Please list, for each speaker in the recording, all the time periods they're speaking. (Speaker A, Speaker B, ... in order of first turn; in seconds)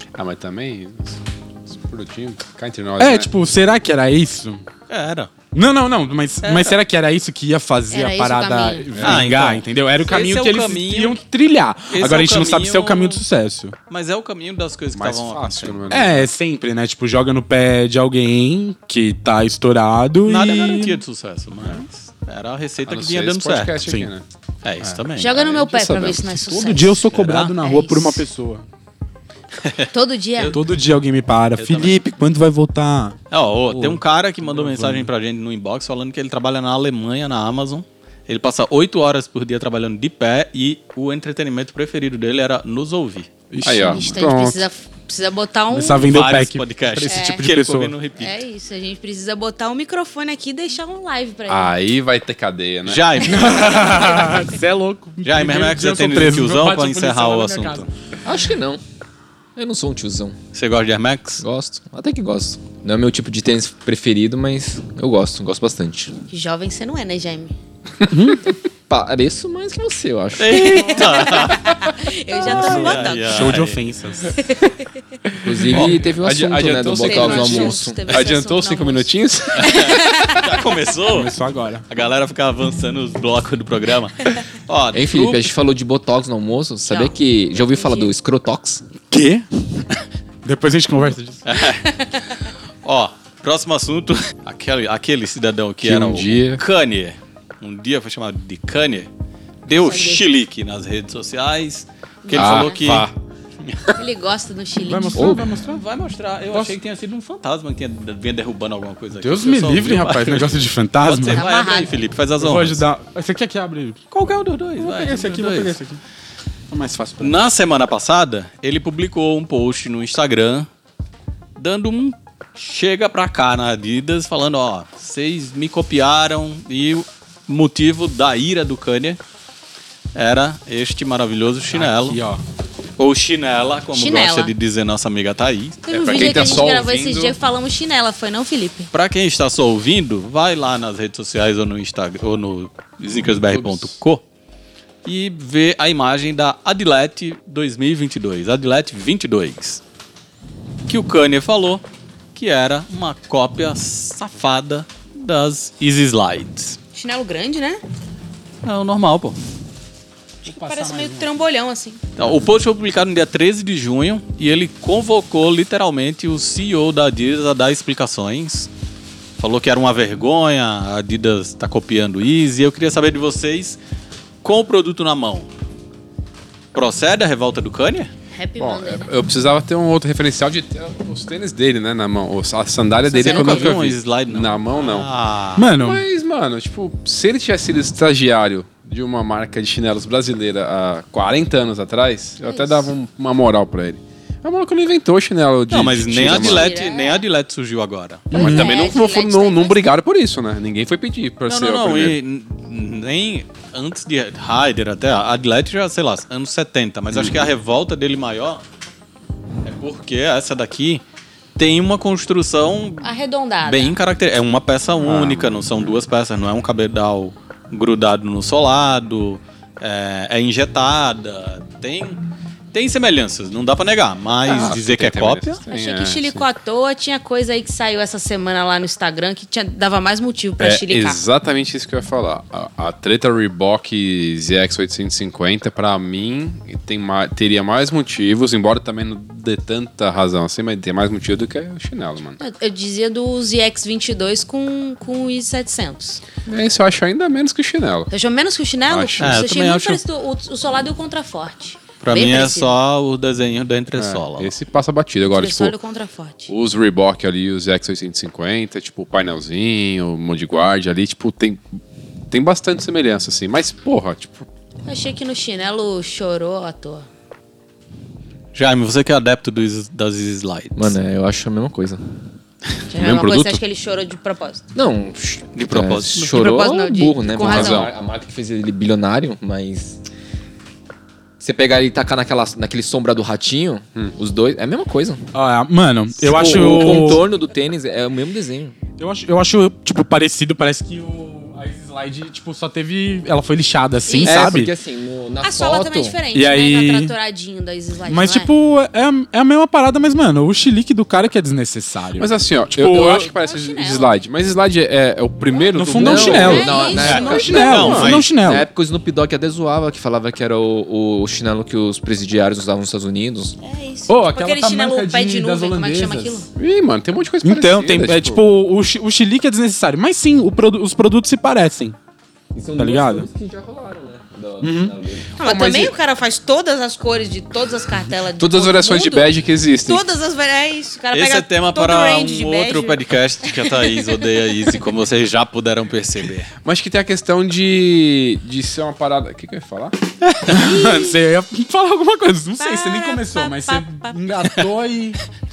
Speaker A: 0.1-3.3, 8.9-9.2, 14.9-16.3, 22.9-24.2, 25.2-26.4, 43.6-44.6, 51.5-53.2, 75.5-80.0, 95.8-96.6, 102.3-103.1, 135.9-137.3, 143.4-143.9, 178.6-185.1, 185.8-196.7, 198.3-202.2, 207.1-207.5, 215.0-215.7, 224.4-226.5, 230.6-242.4, 246.4-248.1, 248.9-249.4, 253.9-255.8, 256.5-261.6, 262.3-264.4, 272.9-273.6, 277.4-277.9, 286.5-286.9, 302.2-308.1, 316.6-318.4, 325.4-325.9, 328.4-330.0, 336.6-340.0
Speaker B: 3.0-4.6, 5.5-13.8, 15.9-21.0, 23.8-24.1, 26.5-28.6, 30.4-33.2, 33.7-35.1, 43.5-44.2, 45.7-47.9, 53.2-57.9, 68.1-68.5, 72.4-74.4, 81.1-81.8, 89.1-91.4, 104.8-105.8, 106.5-106.8, 109.2-111.4, 112.4-114.0, 114.8-116.0, 116.7-117.3, 131.7-132.4, 160.4-161.3, 185.6-186.0, 285.3-287.3, 289.0-294.7, 296.3-297.1, 298.1-303.3, 305.7-308.7, 314.1-316.4, 317.4-321.9, 322.8-323.2, 324.6-324.9, 340.5-345.2
Speaker C: 4.9-5.3, 6.5-6.7, 9.0-11.2, 11.9-13.2, 13.9-15.9, 20.2-23.8, 24.6-25.3, 27.1-27.5, 29.6-30.6, 31.6-32.0, 33.3-43.3, 46.0-48.4, 52.9-53.8, 55.2-57.9, 60.5-61.4, 70.3-71.7, 72.5-73.8, 75.7-76.0, 79.6-81.3, 81.9-85.5, 91.4-91.9, 92.8-99.1, 99.6-103.1, 105.6-112.8, 114.1-115.8, 117.2-120.7, 121.5-129.2, 130.1-132.2, 133.0-136.5, 138.9-144.2, 145.0-149.8, 150.9-151.8, 152.3-156.8, 158.6-159.4, 162.2-168.7, 169.4-173.8, 174.4-175.5, 176.7-178.1, 183.2-185.7, 195.7-198.4, 201.5-208.6, 209.6-211.0, 211.6-222.2, 222.7-225.6, 249.2-250.0, 252.0-254.5, 268.5-271.0, 275.5-276.4, 307.0-308.3, 331.1-336.5, 340.2-340.5
Speaker D: 7.9-8.9, 25.2-28.2, 29.9-30.6, 43.8-46.1, 47.1-47.5, 48.1-51.7, 66.3-67.5, 70.6-73.5, 74.2-74.9, 76.9-79.1, 79.6-80.5, 86.9-88.1, 91.8-92.1, 99.8-100.3, 102.2-102.7, 104.0-105.4, 111.2-111.9, 133.9-134.5, 135.8-138.9, 156.9-157.8, 160.4-162.0, 178.3-179.1, 183.1-183.8, 192.4-192.9, 196.1-197.2, 198.3-199.8, 213.0-214.0, 225.7-231.2, 242.4-246.2, 248.1-252.7, 255.3-256.5, 264.9-267.1, 272.9-274.7, 276.2-277.9, 294.1-294.5, 295.4-298.5, 303.4-304.2, 306.1-308.2, 313.6-316.5, 325.4-334.2, 340.5-341.2, 342.6-344.1
Speaker E: 58.2-58.8, 59.5-60.4, 61.4-66.1, 68.9-70.8, 75.4-78.0, 84.9-88.8, 105.1-105.5, 270.7-272.0, 274.7-280.0, 281.4-285.2, 286.2-288.8, 294.2-296.2, 305.9-313.6, 322.5-325.3